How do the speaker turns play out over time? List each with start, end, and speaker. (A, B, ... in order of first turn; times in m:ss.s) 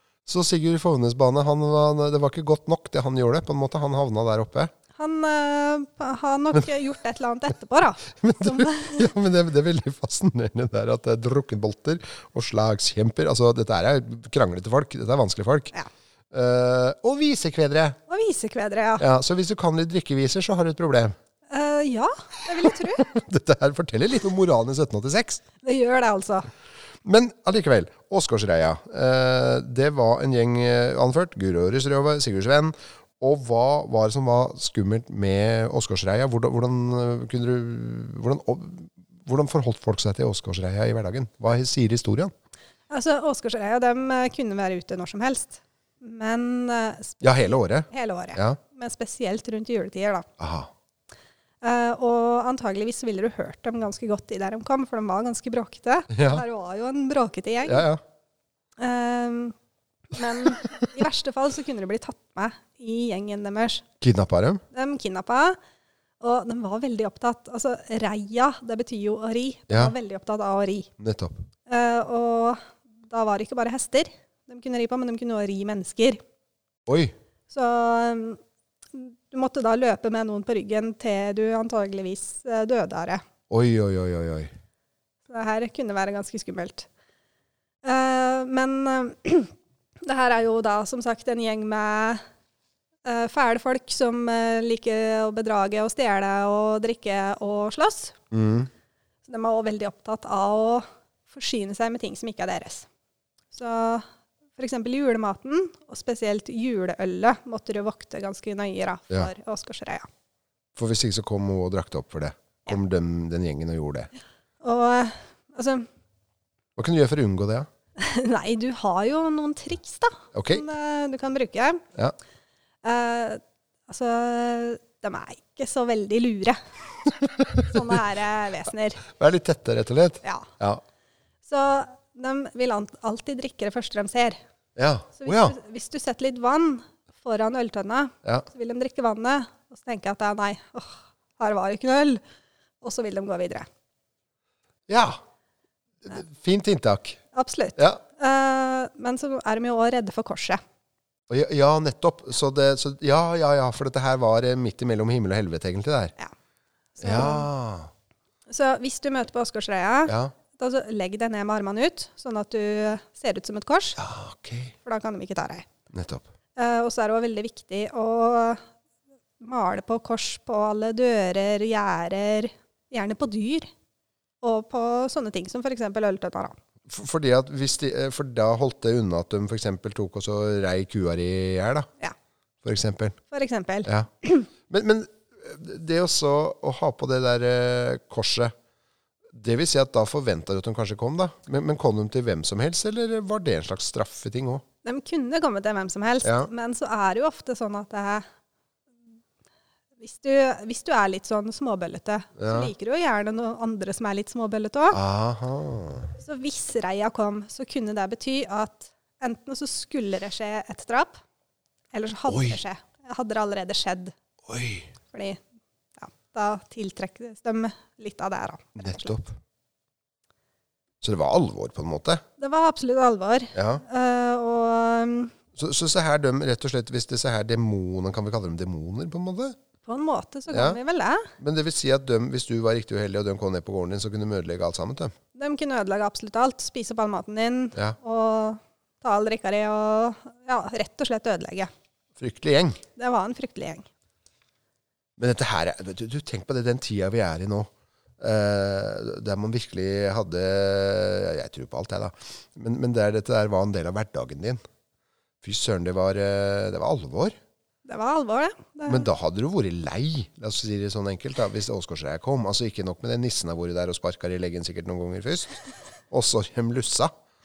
0:00.3-0:04.7 A
0:05.0-0:09.1 B
0:08.1-0:15.7 A
0:16.3-0:18.0 A
0:18.1-0:19.1 B
0:19.0-0:21.2 A
0:21.5-0:23.1 B
0:22.9-0:25.4 A
0:25.6-0:26.5 B
0:27.0-0:42.3 A
0:42.9-0:50.3 B
0:47.2-0:48.6 A
0:50.4-0:50.7 A
0:51.6-0:57.9 B
0:56.1-0:56.4 A
0:57.6-0:58.0 A
0:58.8-0:59.6 B
1:00.1-1:03.8 B
1:04.0-1:04.6 A
1:04.7-1:05.6 B
1:06.2-1:10.9 B
1:11.0-1:11.4 A
1:11.7-1:16.2 B
1:16.9-1:17.1 A
1:17.5-1:18.4 B
1:18.9-1:23.2 B
1:23.5-1:24.5 A
1:25.3-1:26.9 B
1:27.8-1:29.5 B
1:30.0-1:32.2 B
1:33.0-1:38.2 B
1:38.3-1:38.7 A
1:39.2-1:42.9 B
1:43.5-1:44.0 B
1:44.6-1:50.1 B
1:50.8-1:54.1 A
1:54.6-1:55.9 B
1:56.8-1:57.7 A
1:58.0-2:01.9 B
2:00.4-2:00.7 A
2:02.8-2:06.6 B
2:07.6-2:09.0 B
2:09.1-2:10.8 A
2:10.2-2:10.5 B
2:11.4-2:14.4 B
2:14.8-2:15.6 A
2:15.2-2:22.2 B
2:22.8-2:23.7 B
2:24.9-2:25.2 A
2:26.0-2:27.2 A
2:27.3-2:30.6 B
2:31.3-2:36.1 A
2:37.0-2:37.5 B
2:37.0-2:37.9 A
2:38.5-2:44.0 B
2:40.1-2:40.3 A
2:44.0-2:44.7 A
2:44.8-2:45.7 B
2:45.9-2:46.2 A
2:46.6-2:48.6 B
2:49.4-2:53.7 B
2:54.4-2:56.6 B
2:56.9-3:01.9 A
3:02.6-3:03.2 A
3:03.3-3:04.5 B
3:04.7-3:08.5 A
3:09.3-3:14.6 A
3:14.8-3:18.2 B
3:16.2-3:16.5 A
3:20.0-3:25.0 B
3:22.4-3:22.7 A
3:24.9-3:26.1 A
3:26.2-3:31.2 B
3:31.9-3:34.1 B
3:32.3-3:32.6 A
3:34.5-3:34.9 A
3:35.1-3:35.4 B
3:36.0-3:39.2 B
3:38.8-3:39.4 A
3:41.0-3:42.2 A
3:42.4-3:45.4 B
3:43.6-3:43.8 A
3:45.6-3:49.6 A
3:49.8-3:51.3 B
3:50.5-3:50.8 A
3:51.4-3:55.1 A
3:55.4-4:01.7 B
4:02.2-4:02.8 A
4:03.0-4:03.9 B
4:05.2-4:14.6 A
4:15.4-4:17.4 A
4:17.9-4:19.1 B
4:18.9-4:27.1 A